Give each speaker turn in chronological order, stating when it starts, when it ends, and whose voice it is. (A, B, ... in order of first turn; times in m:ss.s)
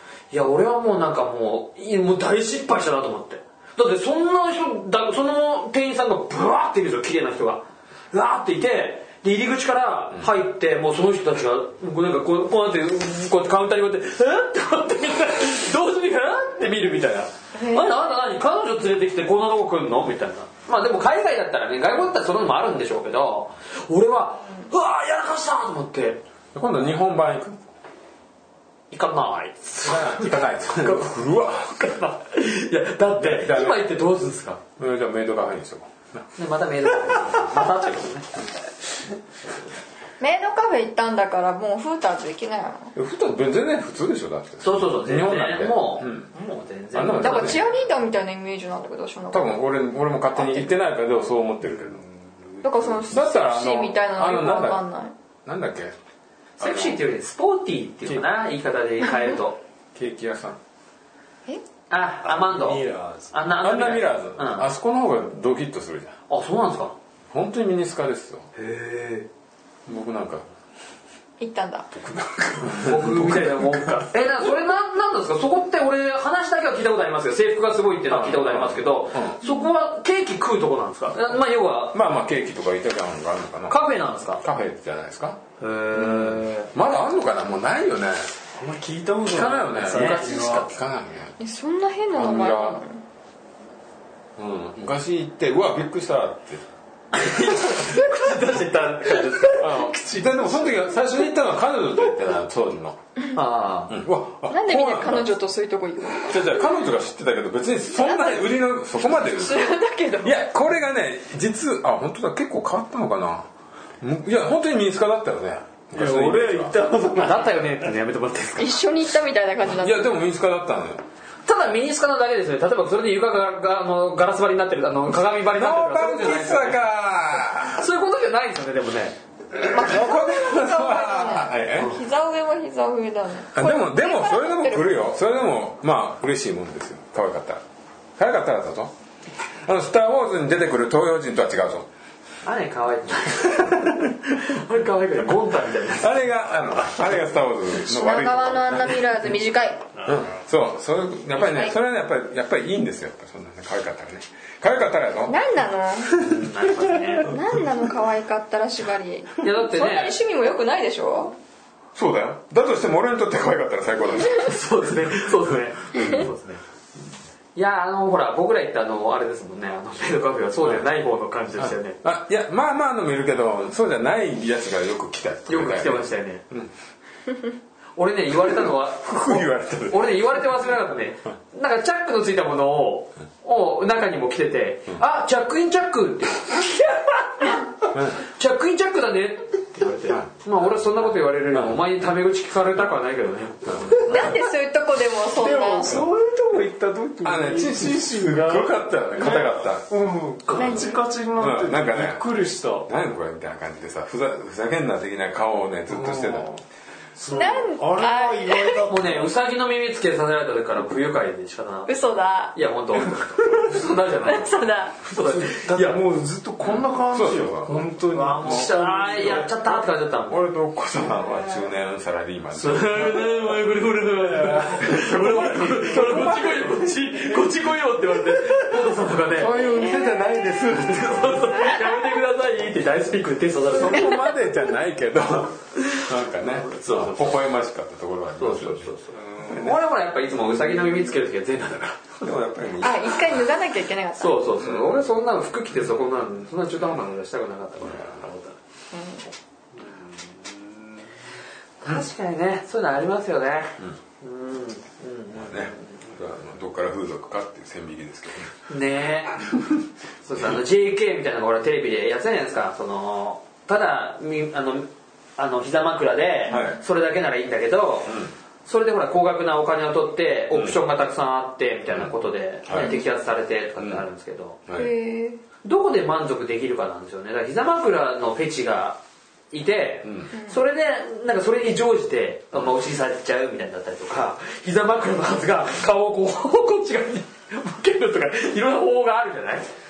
0:00.3-0:26.2 A
0:17.5-0:18.0 B
0:26.5-0:27.6 C
0:28.9-0:34.6 A
0:29.8-0:31.9 C
0:33.2-0:33.9 C
0:34.8-0:36.3 C
0:36.4-0:38.3 A
0:40.2-0:42.9 B
0:42.9-0:46.3 C
0:44.6-0:47.6 A
0:46.9-0:47.6 C
0:47.2-0:49.6 B
0:49.3-0:52.0 C
0:50.3-0:50.7 B
0:51.7-0:53.0 D
0:52.6-0:55.1 B
0:53.1-0:54.8 C
0:55.4-0:55.9 C
0:56.6-0:59.6 A
0:56.6-0:57.0 C
0:59.9-1:00.6 C
1:01.9-1:04.7 A
1:02.2-1:03.3 D
1:03.6-1:06.2 C
1:06.3-1:06.9 A
1:07.3-1:08.5 C
1:08.5-1:09.3 A
1:09.8-1:10.4 C
1:11.4-1:11.9 B
1:12.1-1:12.8 D
1:12.5-1:14.0 C
1:12.7-1:22.0 A
1:18.1-1:19.4 C
1:19.4-1:19.7 B
1:21.9-1:23.8 C
1:23.7-1:24.4 A
1:24.4-1:25.4 C
1:25.6-1:26.7 A
1:25.9-1:28.4 C
1:28.5-1:30.7 D
1:29.2-1:31.4 C
1:29.7-1:30.6 A
1:31.4-1:33.0 B
1:32.1-1:32.8 C
1:34.4-1:36.6 C
1:37.1-1:39.9 A
1:39.6-1:43.0 C
1:39.6-1:40.9 D
1:43.3-1:44.0 A
1:43.9-1:45.3 C
1:44.5-1:46.6 B
1:46.2-1:49.7 C
1:48.0-1:48.5 B
1:49.2-1:50.4 B
1:50.2-1:53.5 C
1:54.0-1:56.8 C
1:55.9-1:57.9 D
1:57.2-1:58.8 A
1:58.6-2:00.1 B
1:59.6-2:01.0 C
2:01.4-2:06.8 A
2:05.5-2:07.8 C
2:07.6-2:09.2 A
2:09.5-2:12.0 C
2:09.6-2:14.9 B
2:13.5-2:17.6 C
2:18.2-2:18.9 C
2:19.6-2:21.9 C
2:22.4-2:26.2 A
2:23.5-2:24.1 C
2:26.0-2:29.0 C
2:27.8-2:29.8 B
2:30.0-2:30.3 D
2:30.0-2:35.4 C
2:31.4-2:31.7 B
2:35.3-2:36.1 B
2:36.2-2:37.3 A
2:37.2-2:41.3 B
2:37.2-2:37.7 C
2:39.4-2:40.2 A
2:41.9-2:44.6 C
2:44.2-2:46.6 A
2:46.0-2:46.2 C
2:47.6-2:52.0 A
2:51.6-2:56.7 C
2:55.5-2:56.4 A
2:58.0-3:07.7 A
2:58.4-3:00.4 C
3:07.9-3:08.2 C
3:08.2-3:14.4 A
3:11.5-3:11.9 C
3:13.6-3:14.0 C
3:14.1-3:16.0 B
3:15.3-3:22.9 D
3:17.2-3:19.9 C
3:20.5-3:20.8 C
3:20.5-3:20.9 B
3:21.4-3:22.2 C
3:22.8-3:26.5 C
3:25.9-3:26.6 D
3:27.1-3:29.3 D
3:27.3-3:28.9 B
3:28.9-3:32.0 A
3:31.9-3:32.5 B
3:32.5-3:36.0 A
3:34.2-3:35.0 B
3:35.2-3:39.8 D
3:36.6-3:37.9 C
3:38.1-3:40.4 A
3:40.3-3:43.3 C
3:42.5-3:49.6 A
3:44.3-3:46.0 D
3:44.8-3:46.7 C
3:49.3-3:51.6 C
3:49.6-3:50.2 B
3:50.7-3:54.2 A
3:53.7-3:58.9 C
3:55.8-3:57.4 A
3:58.4-4:02.3 A
3:59.2-3:59.6 D
3:59.5-3:59.8 C
4:02.2-4:03.5 C
4:02.8-4:04.4 B
4:04.2-4:08.6 A
4:04.6-4:05.0 C
4:07.9-4:08.2 C
4:08.9-4:09.2 B
4:09.8-4:10.6 D
4:11.8-4:16.0 A
4:15.3-4:18.7 C
4:18.7-4:19.4 A
4:19.5-4:19.8 C
4:20.2-4:28.1 A
4:26.5-4:26.8 B
4:26.5-4:26.8 C
4:28.0-4:28.3 C
4:28.6-4:34.6 A
4:30.5-4:30.8 C
4:32.6-4:32.9 C
4:32.7-4:33.0 B
4:33.8-4:34.0 C
4:34.7-4:34.9 C
4:34.7-4:35.4 B
4:35.6-4:39.0 A
4:39.5-4:49.7 A
4:40.0-4:40.3 C
4:40.3-4:40.6 B